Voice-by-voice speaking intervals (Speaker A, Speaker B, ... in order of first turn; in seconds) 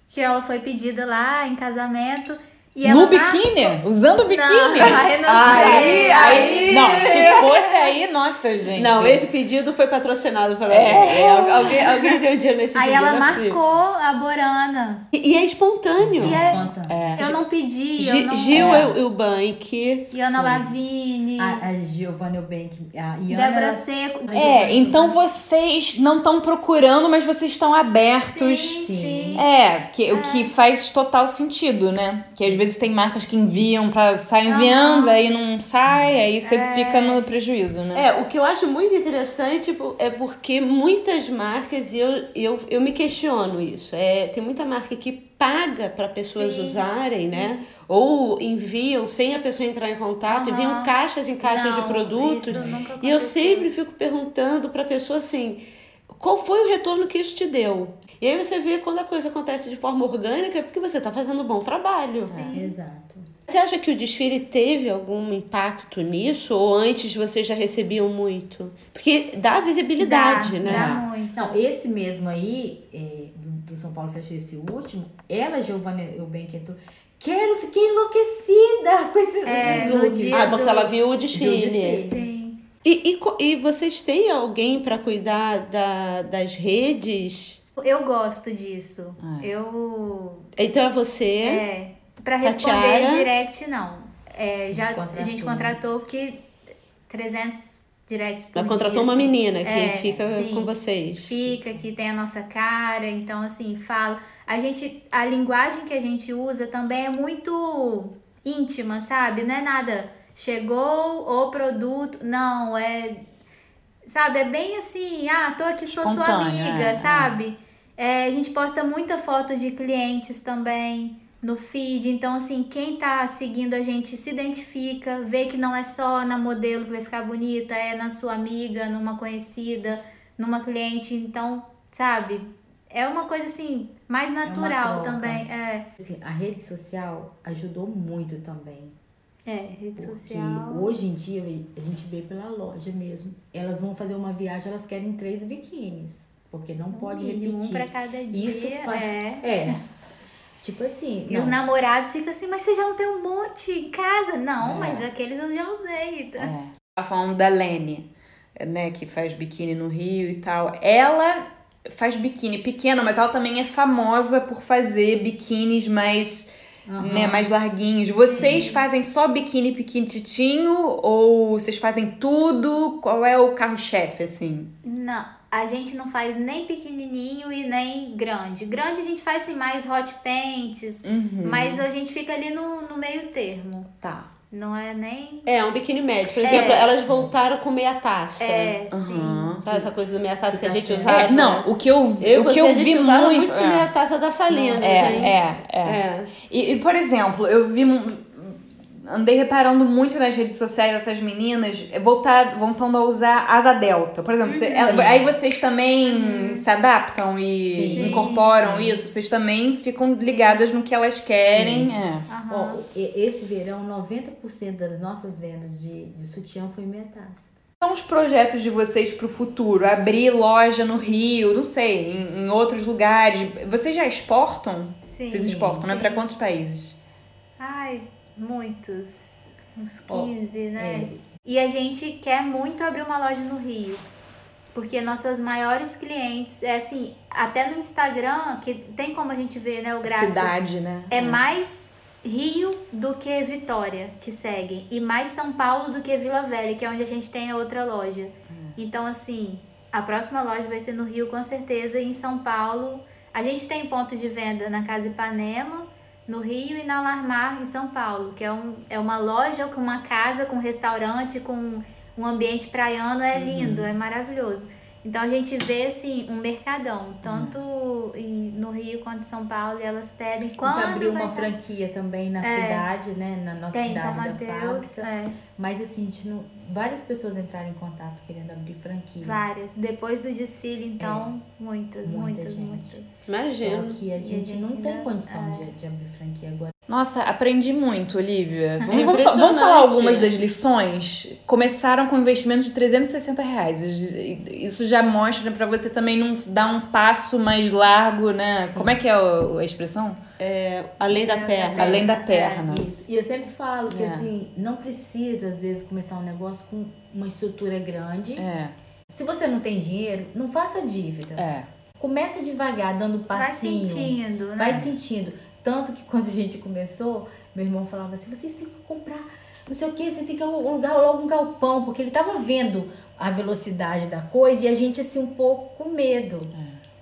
Speaker A: 0.1-7.3, 10.9-11.9, 12.7-15.1, 16.2-18.8, 20.1-21.6, 23.3-24.8, 28.2-29.4, 30.1-30.5, 34.5-35.2, 36.4-37.2, 46.2-47.6, 50.3-53.7, 62.2-62.8, 70.0-71.3, 79.5-80.9, 82.1-82.6, 87.8-90.5, 91.4-96.4, 97.1-100.7, 101.3-113.2, 114.1-135.9, 139.5-141.0, 146.9-149.8, 151.3-156.5, 168.2-168.8, 174.8-185.5, 186.4-186.9, 188.4-189.6, 204.4-205.0, 206.1-206.7, 207.9-208.5, 210.1-210.6, 212.3-212.8, 225.1-226.3, 227.6-234.0, 234.7-240.5, 241.1-271.5, 272.4-272.9, 273.7-275.4, 279.2-283.2, 284.1-285.7, 313.3-314.9
Speaker B: 2.9-9.3, 10.7-11.8, 16.1-17.4, 18.5-18.9, 24.3-28.8, 29.4-38.1, 62.3-62.6, 70.7-71.1, 79.6-79.9, 89.2-89.5, 115.9-117.3, 154.6-155.1, 156.4-174.7, 181.1-181.8, 188.9-189.7, 191.1-193.9, 194.8-212.3, 217.8-227.0, 240.1-241.4, 248.5-248.8, 263.4-263.9, 267.2-267.6, 286.9-300.2, 301.8-302.9, 303.9-304.3, 308.4-308.7, 311.4-311.7, 314.7-315.0, 326.6-326.8
Speaker C: 4.8-7.5, 8.8-13.6, 15.1-16.5, 18.0-20.1, 37.9-62.4, 63.5-70.9, 80.3-82.1, 82.8-87.6, 90.6-91.6, 92.4-93.3, 98.5-101.3, 185.5-188.8, 189.6-196.3, 283.3-284.0, 288.9-290.3, 300.4-302.1
Speaker D: 5.5-6.0, 16.1-17.1, 20.4-20.7, 21.4-25.2, 28.8-29.4, 32.5-32.9, 35.9-36.2, 62.5-63.3, 71.3-82.2, 94.7-95.8, 101.5-101.8, 134.4-135.4, 136.0-139.0, 140.0-149.8, 150.6-151.6, 166.9-167.5, 168.3-168.7, 186.5-187.3, 190.5-191.2, 194.5-195.4, 204.8-205.3, 207.7-209.0, 211.5-212.0, 212.5-217.5, 225.5-225.9, 230.1-231.2, 270.6-275.0, 275.6-279.4, 281.0-281.3, 282.1-286.7, 298.6-299.0, 301.1-308.5, 309.1-311.5, 312.0-326.5